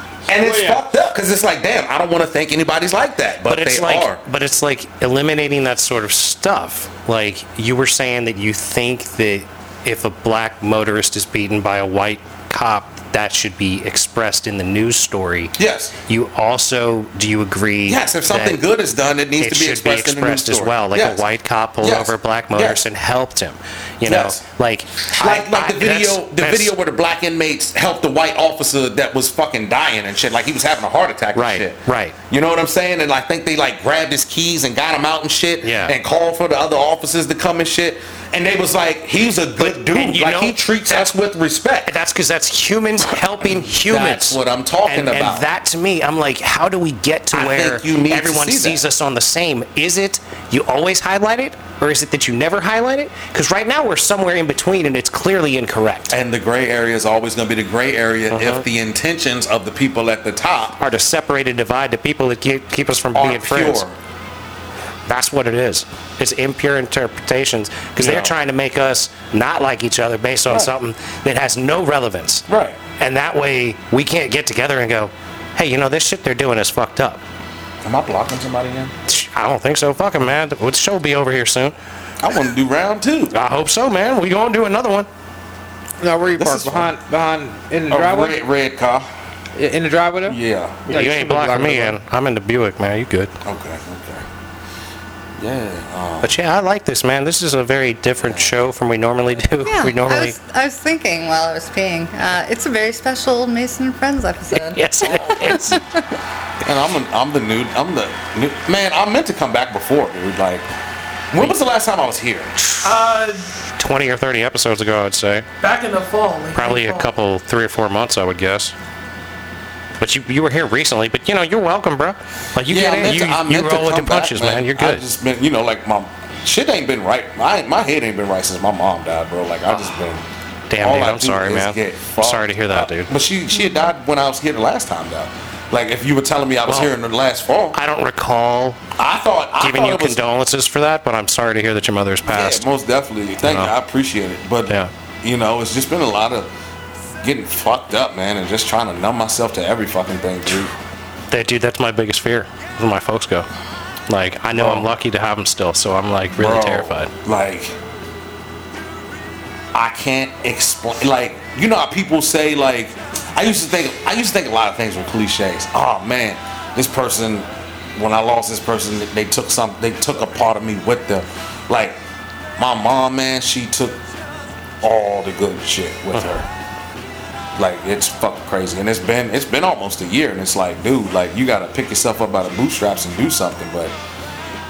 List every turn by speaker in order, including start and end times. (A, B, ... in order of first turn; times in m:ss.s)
0:00.3-0:04.2 A
0:00.4-0:00.8 B
0:03.4-0:15.6 C
0:15.6-0:16.0 A
0:16.1-0:18.6 C
0:17.9-0:21.2 A
0:19.4-0:26.7 C
0:21.8-0:22.8 A
0:24.0-0:24.4 A
0:25.1-0:41.9 A
0:31.3-0:32.2 C
0:35.6-0:35.9 C
0:39.6-0:41.1 C
0:41.9-0:56.2 C
0:43.8-0:45.5 A
0:47.3-0:48.8 A
0:56.1-1:00.8 A
0:58.3-0:58.6 C
1:00.8-1:03.8 C
1:03.1-1:04.0 A
1:05.1-1:12.4 C
1:08.0-1:08.4 A
1:12.5-1:12.8 A
1:13.0-1:17.2 C
1:17.8-1:18.9 A
1:19.1-1:21.8 C
1:22.2-1:23.4 A
1:23.3-1:25.1 C
1:26.0-1:28.4 B
1:26.4-1:26.9 A
1:27.9-1:29.1 A
1:29.6-1:32.0 B
1:30.3-1:30.8 A
1:30.9-1:33.4 C
1:33.4-1:34.3 A
1:35.4-1:36.4 A
1:36.2-1:40.4 C
1:38.2-1:38.6 A
1:39.6-1:44.8 D
1:44.5-1:45.8 C
1:45.0-1:45.8 A
1:45.4-1:45.8 D
1:46.6-1:50.7 A
1:51.3-1:52.5 A
1:52.6-1:52.9 C
1:52.8-1:53.4 E
1:53.8-1:55.5 C
1:55.6-1:57.1 E
1:56.6-1:58.7 C
2:00.0-2:05.0 C
2:02.7-2:10.2 A
2:10.7-2:13.1 C
2:10.8-2:17.8 A
2:17.7-2:18.8 C
2:19.0-2:20.2 A
2:19.6-2:22.6 C
2:22.3-2:26.5 A
2:23.4-2:23.7 C
2:27.2-2:30.7 A
2:31.3-2:33.5 C
2:34.1-2:37.1 C
2:34.5-2:34.9 A
2:36.3-2:37.8 A
2:39.7-2:52.0 A
2:52.6-2:54.0 A
2:54.8-2:56.5 A
2:57.6-3:03.9 A